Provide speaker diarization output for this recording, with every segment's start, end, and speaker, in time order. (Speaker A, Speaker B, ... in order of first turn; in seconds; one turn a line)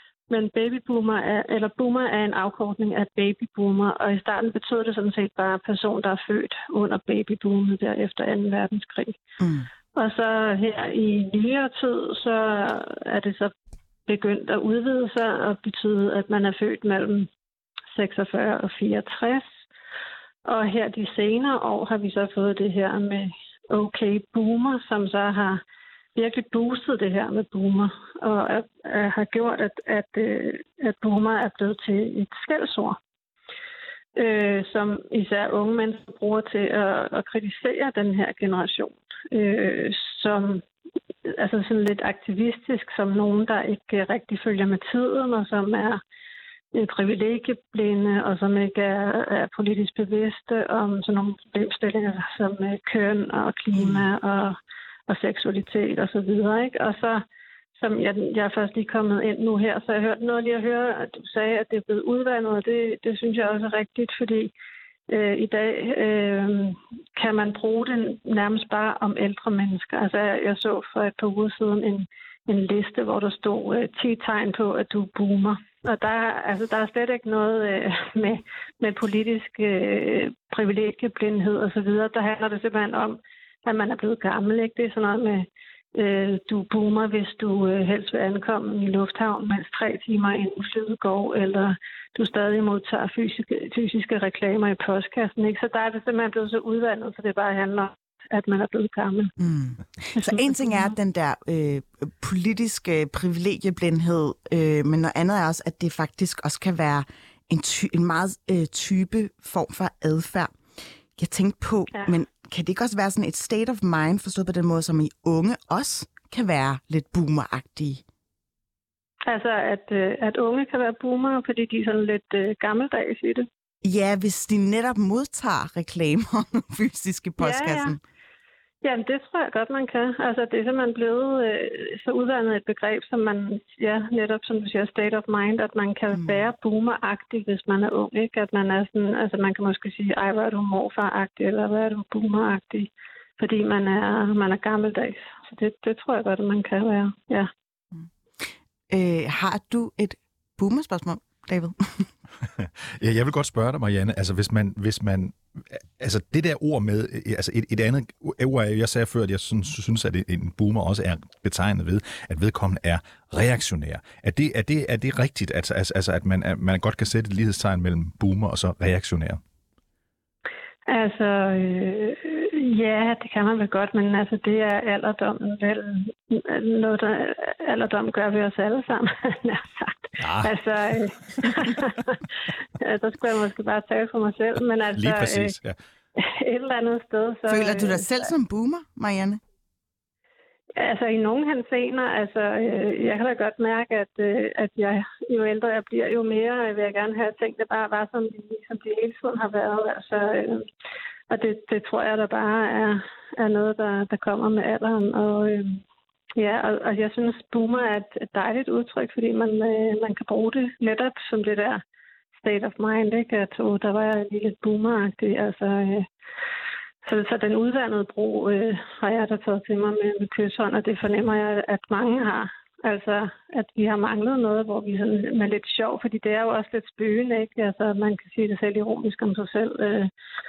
Speaker A: 0.3-9.2
Speaker B: 9.4-9.7
Speaker A: 9.9-13.5
Speaker A: 14.1-17.3
Speaker A: 17.9-19.5
Speaker A: 20.5-25.6
Speaker A: 26.1-33.0
Speaker A: 34.2-40.6
Speaker A: 41.3-46.0
Speaker A: 46.7-57.2
Speaker B: 53.7-54.1
Speaker A: 57.8-64.5
Speaker A: 65.1-99.3
Speaker B: 99.4-110.5
Speaker A: 100.2-100.8
Speaker B: 111.2-118.0
Speaker A: 119.3-123.5
Speaker B: 123.8-128.0
Speaker A: 127.4-128.0
Speaker A: 128.8-147.5
Speaker B: 136.1-136.5
Speaker B: 148.4-152.1
Speaker C: 152.4-169.4
Speaker A: 170.9-182.3
Speaker C: 180.2-181.1
Speaker A: 182.8-185.6
Speaker C: 184.9-185.8
Speaker A: 186.2-188.2
Speaker B: 187.5-189.4
Speaker A: 190.8-200.7
Speaker A: 201.3-205.8
Speaker A: 206.4-211.8
Speaker A: 212.3-216.1
Speaker A: 217.0-230.1